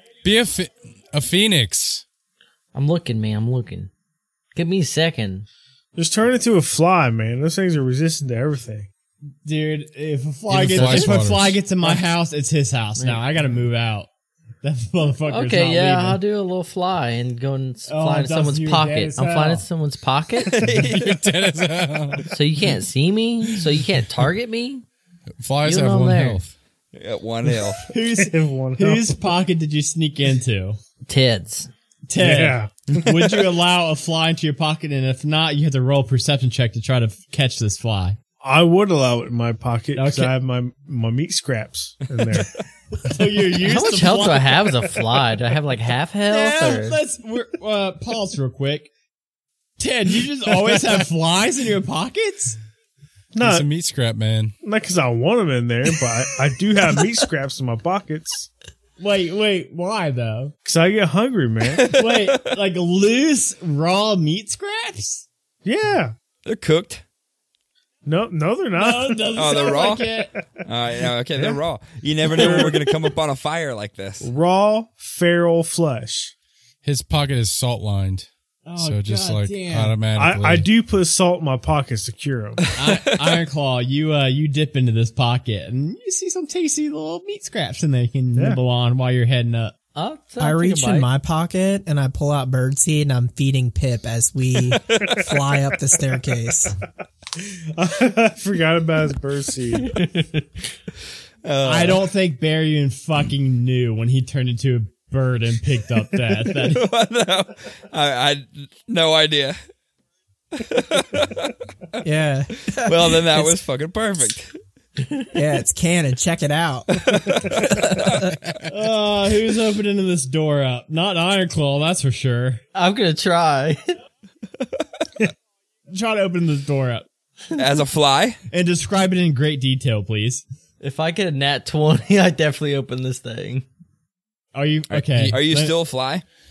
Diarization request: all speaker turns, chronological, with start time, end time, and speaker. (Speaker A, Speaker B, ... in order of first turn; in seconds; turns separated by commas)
Speaker A: 0.2-2.0, Speaker B: 2.7-3.9, Speaker B: 4.5-5.5, Speaker C: 6.0-8.9, Speaker D: 9.4-14.1, Speaker A: 10.5-11.6, Speaker B: 10.7-11.1, Speaker B: 13.0-13.2, Speaker D: 14.6-16.2, Speaker B: 15.3-20.6, Speaker D: 17.9-19.6, Speaker E: 20.4-21.2, Speaker A: 20.7-22.3, Speaker B: 22.3-24.8, Speaker A: 25.4-26.5, Speaker B: 25.6-26.4, Speaker E: 26.9-27.8, Speaker D: 27.9-30.8, Speaker C: 28.2-29.2, Speaker B: 31.1-31.7, Speaker D: 32.1-38.2, Speaker C: 32.2-33.5, Speaker C: 38.4-42.6, Speaker D: 39.9-40.3, Speaker D: 43.0-45.0, Speaker B: 43.6-47.0, Speaker D: 46.3-48.9, Speaker D: 49.8-52.6, Speaker C: 53.3-53.7, Speaker A: 53.4-54.5, Speaker C: 54.6-58.5, Speaker D: 59.0-60.5, Speaker C: 60.6-61.9, Speaker E: 61.8-62.5, Speaker D: 61.8-65.2, Speaker C: 65.6-66.1, Speaker E: 66.4-67.0, Speaker C: 68.0-69.8, Speaker D: 68.8-70.3, Speaker E: 69.3-70.1, Speaker E: 70.6-74.3, Speaker C: 72.3-72.8, Speaker C: 74.2-76.3, Speaker A: 76.8-78.3, Speaker D: 78.7-80.0, Speaker A: 78.8-80.6, Speaker C: 80.1-82.7, Speaker D: 82.7-89.7, Speaker E: 82.8-83.3, Speaker C: 88.3-88.6, Speaker B: 90.0-91.1, Speaker F: 90.4-96.8, Speaker E: 94.9-95.2, Speaker C: 97.4-100.0, Speaker B: 100.0-100.4, Speaker E: 101.4-102.1, Speaker D: 101.6-106.9, Speaker E: 106.6-109.6, Speaker E: 110.5-111.5, Speaker F: 112.0-113.5, Speaker E: 112.7-114.5, Speaker F: 115.3-118.1, Speaker E: 117.0-118.3, Speaker D: 118.7-122.6, Speaker B: 122.7-123.9, Speaker D: 125.9-127.1, Speaker E: 127.5-128.4, Speaker D: 128.5-130.4, Speaker B: 130.8-133.7, Speaker D: 134.5-135.7, Speaker A: 135.1-135.4, Speaker E: 135.2-136.2